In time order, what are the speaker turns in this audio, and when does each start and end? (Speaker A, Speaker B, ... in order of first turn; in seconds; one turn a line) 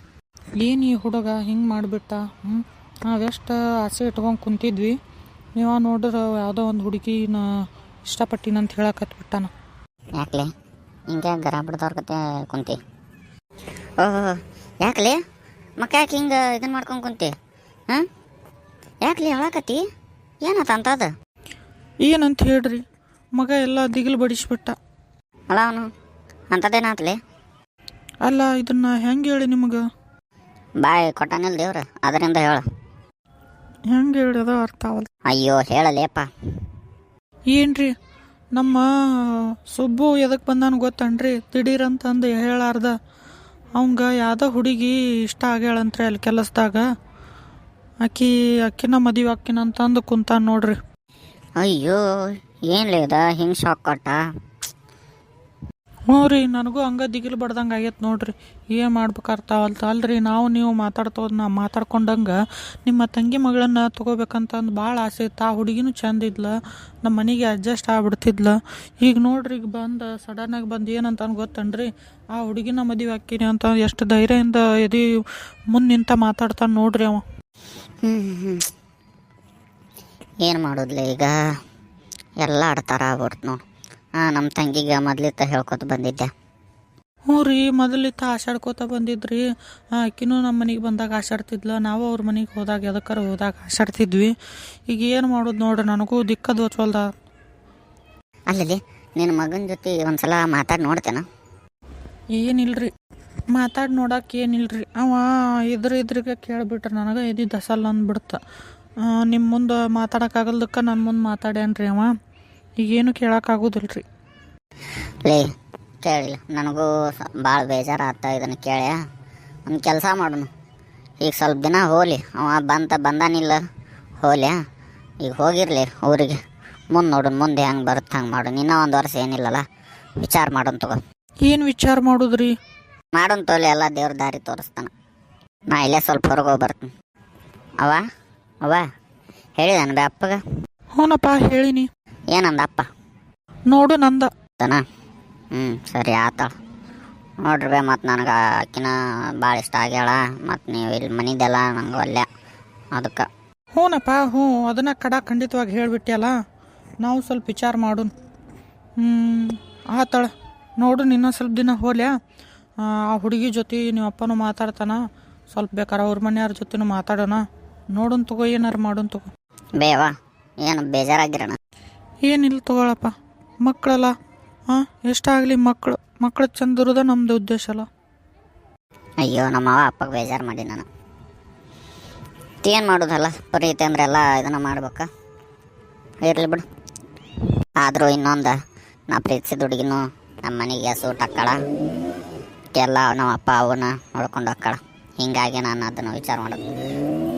Speaker A: 0.6-5.0
Speaker A: 5.6-7.5
Speaker A: 8.1-9.5
Speaker B: 10.2-10.5
Speaker B: 11.1-12.8
Speaker B: 14.0-15.2
Speaker B: 15.8-17.3
Speaker B: 19.0-19.8
Speaker B: 20.4-21.1
Speaker A: 22.0-22.8
Speaker A: 23.3-24.7
Speaker B: 25.5-25.9
Speaker B: 26.5-27.1
Speaker A: 28.2-29.8
Speaker B: 30.8-32.6
Speaker A: 33.9-35.1
Speaker B: 35.3-36.3
Speaker A: 37.5-37.9
Speaker A: 38.5-42.9
Speaker A: 43.8-46.8
Speaker A: 48.0-50.8
Speaker B: 51.6-54.2
Speaker A: 56.1-75.0
Speaker A: 75.7-77.2
Speaker B: 78.0-78.7
Speaker B: 80.4-81.3
Speaker B: 82.4-83.6
Speaker B: 84.2-86.3
Speaker A: 87.3-89.4
Speaker A: 90.0-94.3
Speaker A: 94.9-97.0
Speaker B: 98.5-101.2
Speaker A: 102.3-102.9
Speaker A: 103.5-108.4
Speaker A: 109.0-112.1
Speaker A: 112.8-114.0
Speaker B: 116.0-119.0
Speaker B: 119.7-120.5
Speaker B: 121.2-123.6
Speaker B: 124.2-124.6
Speaker B: 125.2-126.4
Speaker B: 126.9-129.6
Speaker B: 130.2-131.0
Speaker A: 131.4-132.5
Speaker B: 133.1-134.9
Speaker B: 135.7-136.9
Speaker B: 139.6-140.4
Speaker A: 141.0-141.9
Speaker B: 142.3-142.8
Speaker A: 143.7-144.3
Speaker B: 145.5-146.5
Speaker B: 147.4-152.3
Speaker B: 152.9-153.3
Speaker A: 153.8-156.3
Speaker A: 157.0-158.1
Speaker A: 159.0-162.1
Speaker A: 162.8-165.0
Speaker A: 165.5-167.4
Speaker A: 167.9-169.3
Speaker B: 169.8-171.6
Speaker A: 172.2-173.1
Speaker A: 173.6-174.1
Speaker A: 174.7-177.8
Speaker B: 179.2-180.9
Speaker B: 182.6-185.1
Speaker B: 186.2-186.6
Speaker B: 187.8-188.6
Speaker B: 189.1-191.6
Speaker B: 192.8-196.7